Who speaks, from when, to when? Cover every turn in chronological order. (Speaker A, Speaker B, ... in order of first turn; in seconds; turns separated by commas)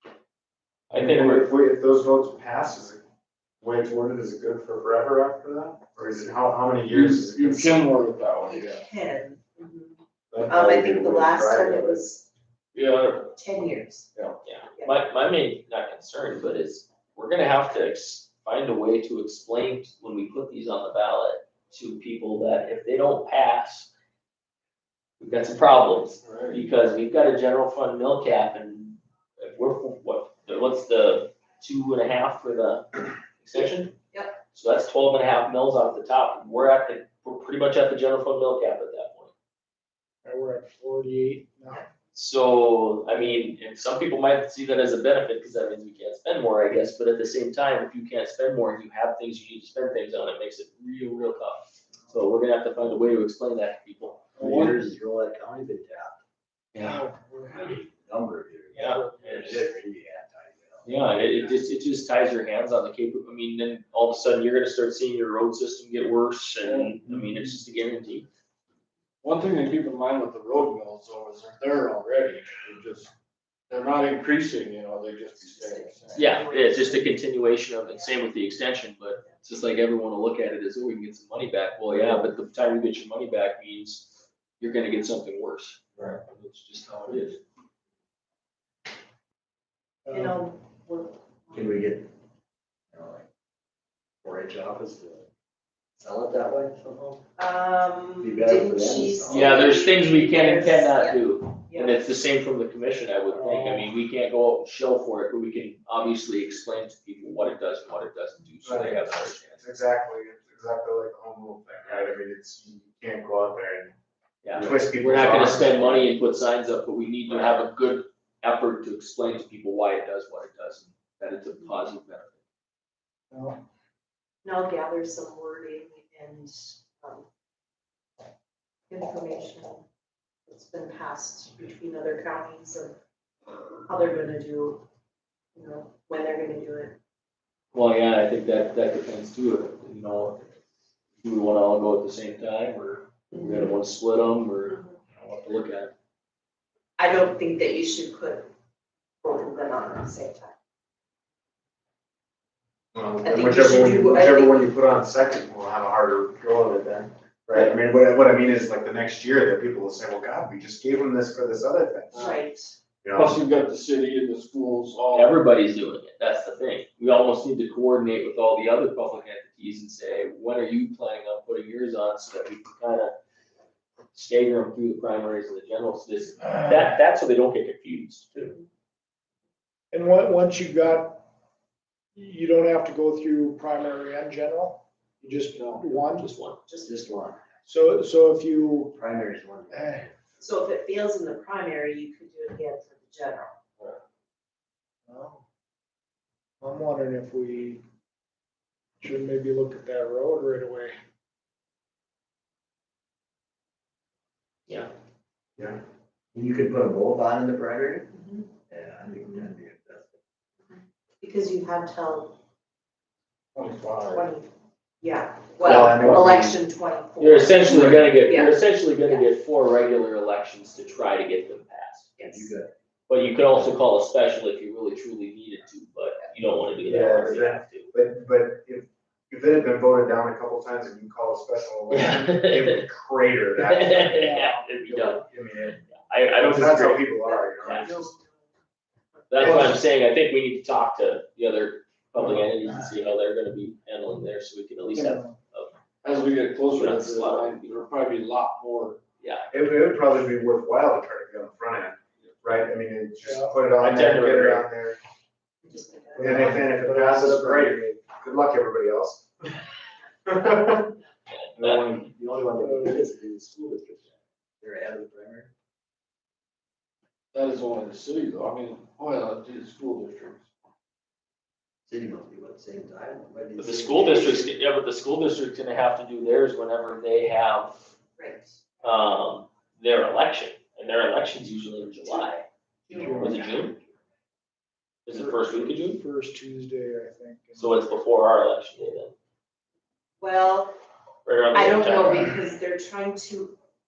Speaker A: 0.9-1.5, Speaker B: 1.0-3.0, Speaker B: 3.6-7.8, Speaker C: 6.9-8.8, Speaker D: 8.4-12.2, Speaker B: 10.3-12.0, Speaker C: 12.7-13.3, Speaker D: 13.3-14.1, Speaker A: 14.4-23.9, Speaker A: 25.2-33.9, Speaker C: 26.2-26.6, Speaker D: 33.6-34.4, Speaker A: 34.5-39.3, Speaker E: 40.2-41.8, Speaker A: 42.1-54.3, Speaker F: 54.4-56.2, Speaker C: 54.5-54.8, Speaker A: 56.7-57.1, Speaker E: 56.8-57.7, Speaker F: 57.5-61.5, Speaker A: 58.7-59.7, Speaker E: 58.7-59.8, Speaker A: 60.8-68.3, Speaker C: 66.6-67.0, Speaker C: 69.2-73.1, Speaker C: 73.7-76.5, Speaker D: 75.4-77.2, Speaker A: 76.1-87.4, Speaker D: 78.0-78.2, Speaker F: 81.9-82.2, Speaker C: 86.4-87.2, Speaker E: 90.1-90.4, Speaker D: 90.1-91.8, Speaker F: 91.5-92.1, Speaker F: 92.9-93.2, Speaker F: 94.2-95.2, Speaker F: 96.0-97.2, Speaker D: 97.4-102.1, Speaker F: 98.2-99.7, Speaker A: 99.3-109.6, Speaker E: 103.4-103.9, Speaker B: 108.6-109.0, Speaker B: 109.6-113.9, Speaker A: 114.4-122.4, Speaker B: 114.5-116.1, Speaker E: 123.3-123.6, Speaker D: 124.4-127.3, Speaker D: 128.9-129.8, Speaker D: 130.5-132.9, Speaker D: 133.8-134.8, Speaker D: 135.5-136.9, Speaker A: 137.7-140.4, Speaker A: 141.2-145.9, Speaker D: 143.3-143.7, Speaker D: 147.0-148.5, Speaker D: 149.2-150.5, Speaker B: 152.9-162.3, Speaker D: 153.2-154.7, Speaker C: 162.1-162.4, Speaker D: 162.1-162.8, Speaker B: 163.0-163.4, Speaker C: 163.1-165.3, Speaker A: 165.1-173.1, Speaker A: 174.1-178.6, Speaker E: 179.9-181.2, Speaker E: 182.2-186.3, Speaker A: 186.1-186.6, Speaker D: 186.7-187.3, Speaker F: 186.8-187.4, Speaker E: 187.7-189.0, Speaker F: 188.9-190.0, Speaker E: 189.7-190.1, Speaker D: 190.4-193.5, Speaker E: 195.1-195.4, Speaker E: 196.6-197.8, Speaker E: 199.0-200.9, Speaker F: 206.3-208.1, Speaker D: 208.1-208.5, Speaker F: 208.7-210.2, Speaker D: 210.7-212.4, Speaker E: 213.6-214.1, Speaker D: 214.0-219.3, Speaker B: 215.6-216.6, Speaker A: 215.7-216.3, Speaker A: 217.2-222.1, Speaker B: 217.7-217.9, Speaker D: 222.2-222.5, Speaker F: 222.2-222.7, Speaker A: 223.1-227.9, Speaker B: 226.8-234.3, Speaker A: 231.9-232.8, Speaker A: 233.6-235.2, Speaker E: 234.1-234.7, Speaker B: 234.9-235.8, Speaker A: 235.9-237.9, Speaker B: 236.4-238.1, Speaker D: 237.2-238.5, Speaker D: 239.2-239.6, Speaker A: 239.3-245.7, Speaker B: 239.4-239.8, Speaker E: 244.9-245.4, Speaker C: 246.0-249.0, Speaker A: 246.7-247.8, Speaker A: 249.2-249.5, Speaker B: 249.5-255.0, Speaker E: 253.2-253.6, Speaker A: 253.8-254.7, Speaker D: 255.6-256.6, Speaker E: 256.2-257.8, Speaker B: 256.2-259.5, Speaker B: 260.2-260.9, Speaker F: 261.6-265.5, Speaker E: 262.5-263.1, Speaker C: 267.3-270.4, Speaker F: 271.9-274.5, Speaker A: 273.6-277.8, Speaker D: 278.2-278.6, Speaker A: 278.8-282.4, Speaker D: 282.9-283.4, Speaker E: 282.9-283.5, Speaker F: 283.0-283.7, Speaker A: 283.1-283.8, Speaker A: 285.1-286.0, Speaker E: 285.1-287.9, Speaker A: 287.6-289.1, Speaker D: 290.2-290.7, Speaker A: 291.2-292.3, Speaker D: 291.5-293.6